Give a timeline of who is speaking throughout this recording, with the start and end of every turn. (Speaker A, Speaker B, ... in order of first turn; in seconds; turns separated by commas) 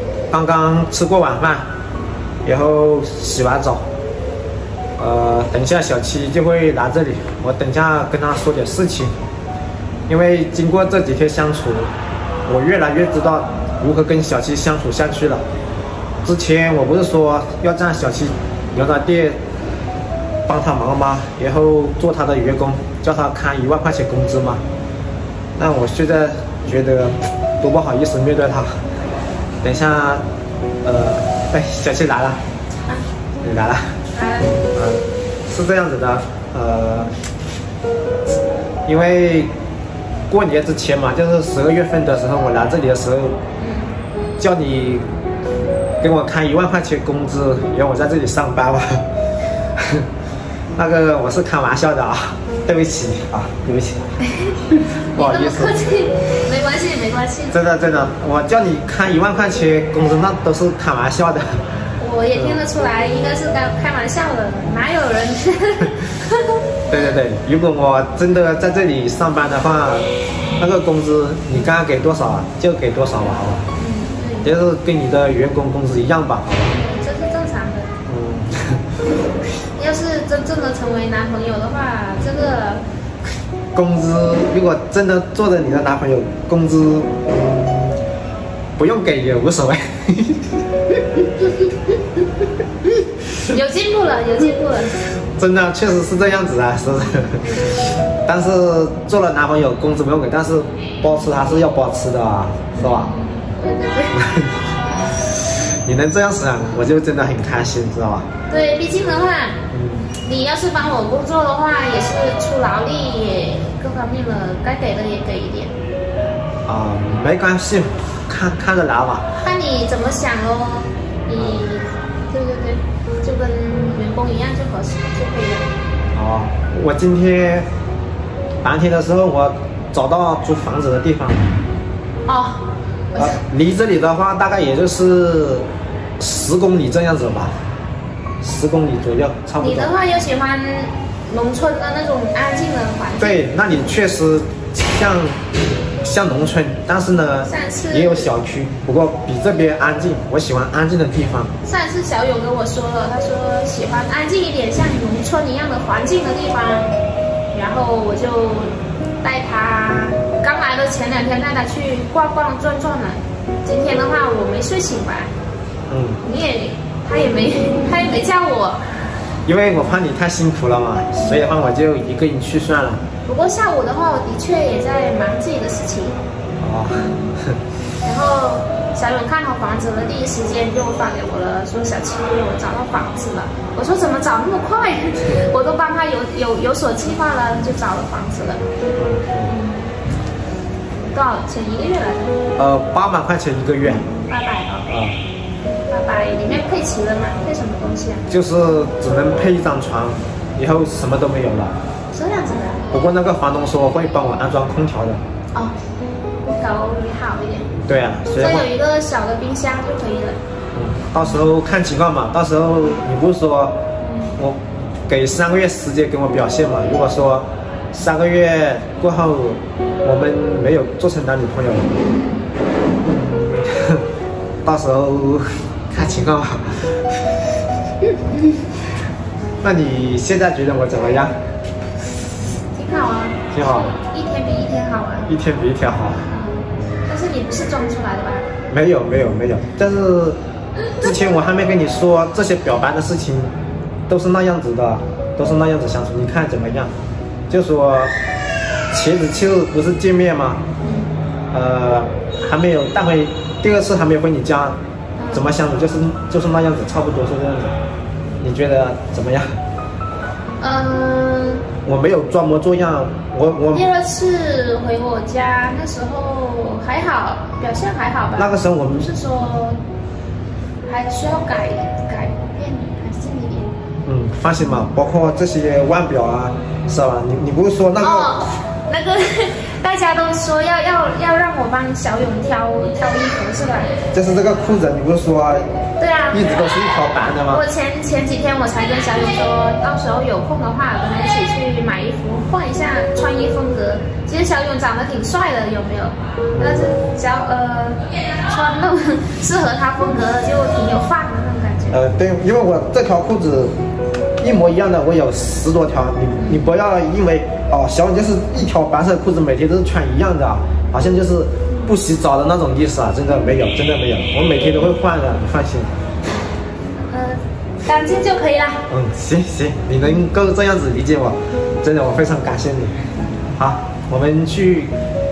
Speaker A: 0.3-1.6, Speaker A: 2.4-3.8, Speaker A: 5.0-9.1, Speaker A: 10.1-11.9, Speaker A: 12.4-15.4, Speaker A: 16.2-19.4, Speaker A: 20.5-24.6, Speaker A: 25.6-28.8, Speaker A: 29.6-30.2, Speaker A: 30.8-32.4, Speaker A: 33.4-34.0, Speaker B: 34.1-34.6, Speaker A: 34.7-37.1, Speaker A: 38.9-39.5, Speaker A: 40.3-43.4, Speaker B: 43.6-43.9, Speaker A: 44.4-45.0, Speaker A: 46.0-49.0, Speaker A: 49.8-50.0, Speaker A: 50.8-54.2, Speaker A: 54.8-55.7, Speaker B: 55.1-57.6, Speaker A: 57.5-61.6, Speaker B: 62.0-67.2, Speaker A: 62.3-62.6, Speaker A: 66.9-70.1, Speaker A: 70.6-73.7, Speaker B: 73.8-74.5, Speaker A: 74.4-76.7, Speaker B: 76.7-77.9, Speaker A: 78.1-78.8, Speaker B: 79.6-82.8, Speaker A: 83.7-87.3, Speaker A: 88.8-90.6, Speaker B: 93.5-95.0, Speaker A: 95.3-97.5, Speaker A: 98.2-103.1, Speaker B: 102.8-104.2, Speaker A: 104.1-104.6, Speaker A: 105.8-108.3, Speaker B: 108.5-109.6, Speaker A: 109.7-110.1, Speaker B: 110.1-115.7, Speaker A: 116.7-119.3, Speaker B: 119.3-125.7, Speaker A: 121.4-121.6, Speaker A: 126.1-127.7, Speaker A: 128.6-131.5, Speaker B: 132.2-133.4, Speaker A: 133.2-135.7, Speaker A: 136.2-137.6, Speaker A: 138.4-139.9, Speaker B: 139.6-143.4, Speaker A: 143.2-145.4, Speaker A: 146.0-151.5, Speaker B: 147.4-148.3, Speaker B: 151.6-157.0, Speaker B: 157.5-165.3, Speaker A: 165.9-166.2, Speaker B: 166.2-168.8, Speaker A: 169.4-173.0, Speaker B: 173.2-176.2, Speaker A: 176.6-177.6, Speaker B: 176.9-177.3, Speaker B: 178.0-188.6, Speaker A: 188.9-189.5, Speaker B: 189.4-189.9, Speaker B: 191.1-192.4, Speaker A: 192.6-194.1, Speaker B: 194.0-194.9, Speaker A: 194.8-195.2, Speaker B: 195.9-198.2, Speaker A: 198.3-201.7, Speaker B: 202.1-202.9, Speaker A: 202.9-205.2, Speaker B: 206.4-207.7, Speaker A: 207.7-208.7, Speaker B: 208.3-210.4, Speaker A: 210.7-213.8, Speaker B: 214.0-214.4, Speaker A: 214.4-221.9, Speaker A: 223.1-224.0, Speaker A: 224.6-227.1, Speaker A: 229.6-231.4, Speaker B: 232.7-235.3, Speaker A: 233.5-233.9, Speaker A: 235.3-236.2, Speaker B: 236.3-238.5, Speaker A: 238.7-240.4, Speaker A: 241.0-243.5, Speaker A: 244.1-246.9, Speaker A: 247.5-248.1, Speaker A: 248.9-250.6, Speaker B: 250.8-251.1, Speaker A: 251.5-254.8, Speaker B: 255.2-255.5, Speaker A: 255.3-257.8, Speaker A: 258.4-259.5, Speaker B: 260.6-261.7, Speaker A: 261.8-263.8, Speaker B: 263.7-269.8, Speaker A: 268.4-269.1, Speaker B: 270.9-273.7, Speaker A: 274.0-278.3, Speaker B: 278.0-284.0, Speaker A: 284.1-285.7, Speaker B: 286.0-286.5, Speaker A: 286.3-287.6, Speaker B: 287.5-302.0, Speaker A: 296.5-297.0, Speaker A: 301.9-303.7, Speaker A: 304.4-315.9, Speaker B: 306.4-306.6, Speaker B: 317.1-318.8, Speaker A: 318.9-322.9, Speaker A: 323.6-324.9